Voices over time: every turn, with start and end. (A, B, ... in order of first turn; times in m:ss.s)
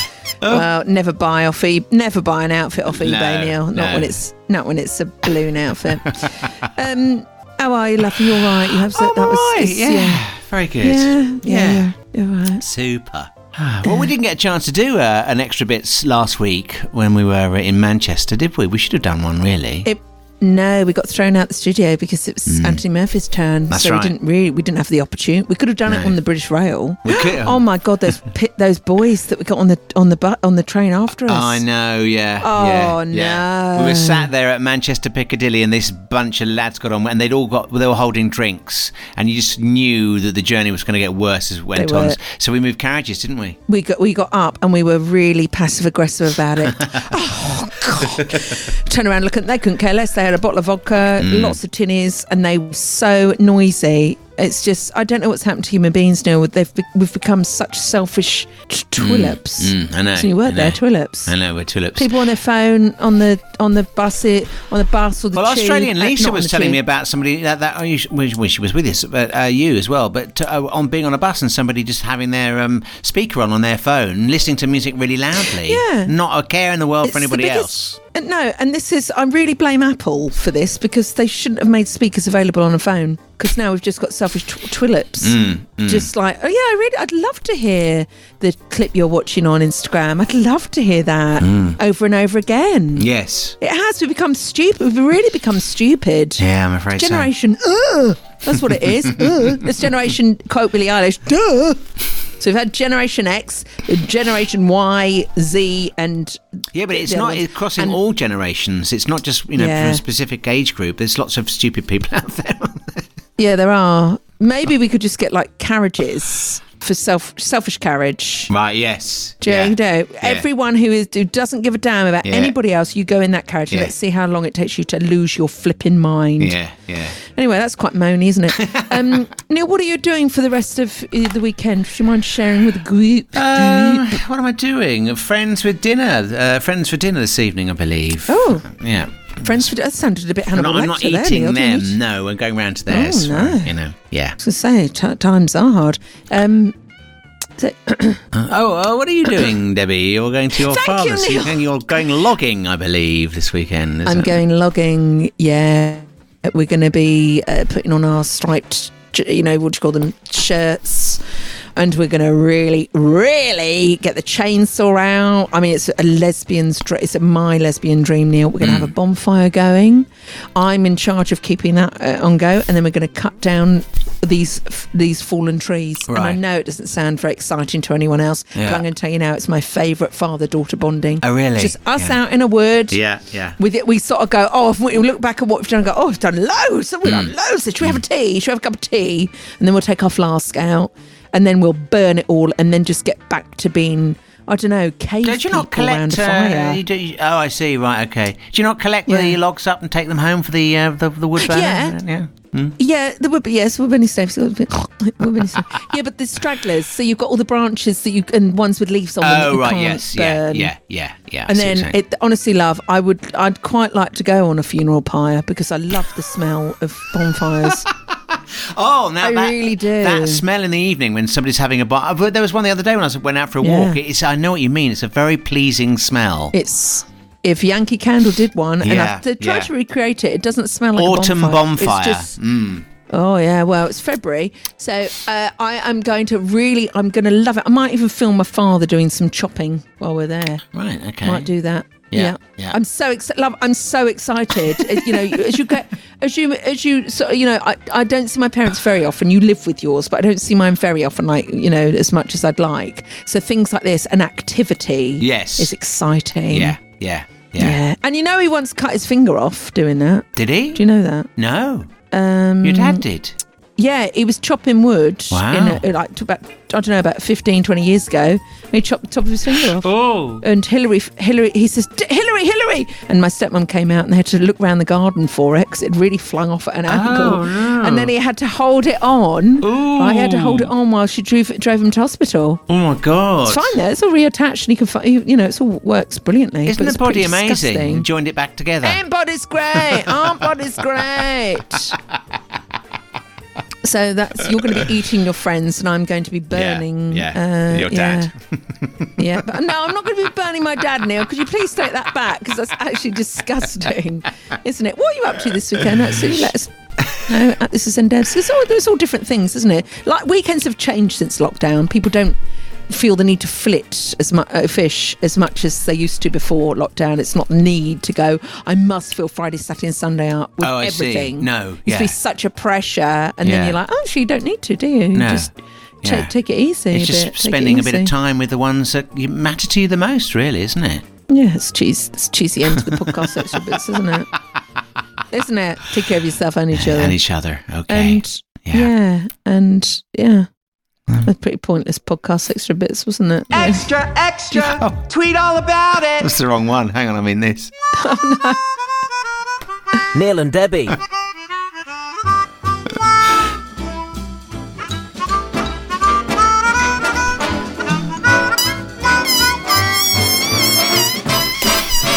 0:00.4-0:10.2 A
0:02.9-0:04.1 B
0:06.2-0:06.5 B
0:08.5-0:11.9 B
0:10.8-0:12.6 A
0:12.6-0:19.9 B
0:13.8-0:14.1 A
0:19.8-0:31.6 A
0:22.5-0:22.8 B
0:23.7-0:24.2 B
0:25.9-0:26.2 B
0:27.0-0:27.6 B
0:31.3-0:43.6 B
0:32.4-0:34.3 A
0:41.7-0:42.2 A
0:43.7-1:01.3 A
0:51.2-0:51.6 B
0:59.0-1:02.2 B
1:01.9-1:06.8 A
1:05.3-1:18.0 B
1:15.6-1:16.1 A
1:17.0-1:33.1 A
1:25.2-1:26.1 B
1:31.4-1:31.8 B
1:33.0-1:33.6 B
1:33.6-1:41.8 A
1:36.4-1:37.3 B
1:42.4-1:46.4 A
1:46.7-1:53.0 B
1:46.9-1:48.0 A
1:49.6-1:50.0 A
1:53.4-1:58.5 A
1:58.5-2:00.4 B
1:59.4-2:06.6 A
2:02.2-2:02.5 B
2:06.4-2:07.1 B
2:07.2-2:14.2 A
2:08.6-2:09.2 B
2:13.3-2:19.4 B
2:18.3-2:18.7 A
2:19.4-2:22.0 A
2:20.5-2:24.4 B
2:22.9-2:23.7 A
2:24.4-2:26.8 A
2:27.6-2:28.2 A
2:28.3-2:34.4 B
2:30.6-2:31.7 A
2:34.0-2:41.2 A
2:41.8-3:03.0 A
2:48.6-2:48.9 B
2:56.1-2:56.4 B
2:58.5-2:58.8 B
3:01.2-3:02.2 B
3:02.9-3:03.6 B
3:03.6-3:16.8 A
3:07.0-3:07.3 B
3:15.2-3:22.8 B
3:19.1-3:19.4 A
3:21.4-3:22.0 A
3:22.8-3:30.7 A
3:29.2-3:32.0 B
3:31.5-3:37.8 A
3:37.8-3:46.5 B
3:39.2-3:40.4 A
3:43.6-3:44.0 A
3:46.5-3:52.3 A
3:48.8-3:49.7 B
3:51.0-3:52.8 B
3:53.1-4:00.6 A
4:00.7-4:01.5 B
4:01.2-4:16.8 A
4:02.1-4:02.8 B
4:04.8-4:05.4 B
4:15.2-4:15.7 B
4:16.5-4:17.8 B
4:17.6-4:21.3 A
4:20.4-4:20.8 B
4:21.4-4:21.9 B
4:22.1-4:23.0 A
4:22.6-4:23.4 B
4:23.8-4:42.6 A
4:25.3-4:25.8 B
4:29.6-4:30.4 B
4:36.9-4:38.1 B
4:39.6-4:40.7 B
4:42.7-4:43.8 B
4:43.5-4:48.0 A
4:46.6-4:49.0 B
4:48.8-4:52.0 A
4:53.8-4:58.3 A
4:56.5-4:59.1 B
4:59.2-5:12.4 A
5:12.9-5:25.5 A
5:20.6-5:22.1 B
5:23.4-5:23.8 B
5:25.1-5:25.5 B
5:26.0-5:26.3 B
5:26.0-5:28.1 A
5:26.9-5:31.0 B
5:31.3-5:34.3 A
5:35.3-5:37.2 A
5:36.7-5:38.9 B
5:37.9-5:40.5 A
5:41.2-5:43.9 A
5:43.5-5:46.3 C
5:44.6-5:45.1 B
5:46.2-5:47.7 B
5:48.0-5:48.6 A
5:50.1-5:51.0 B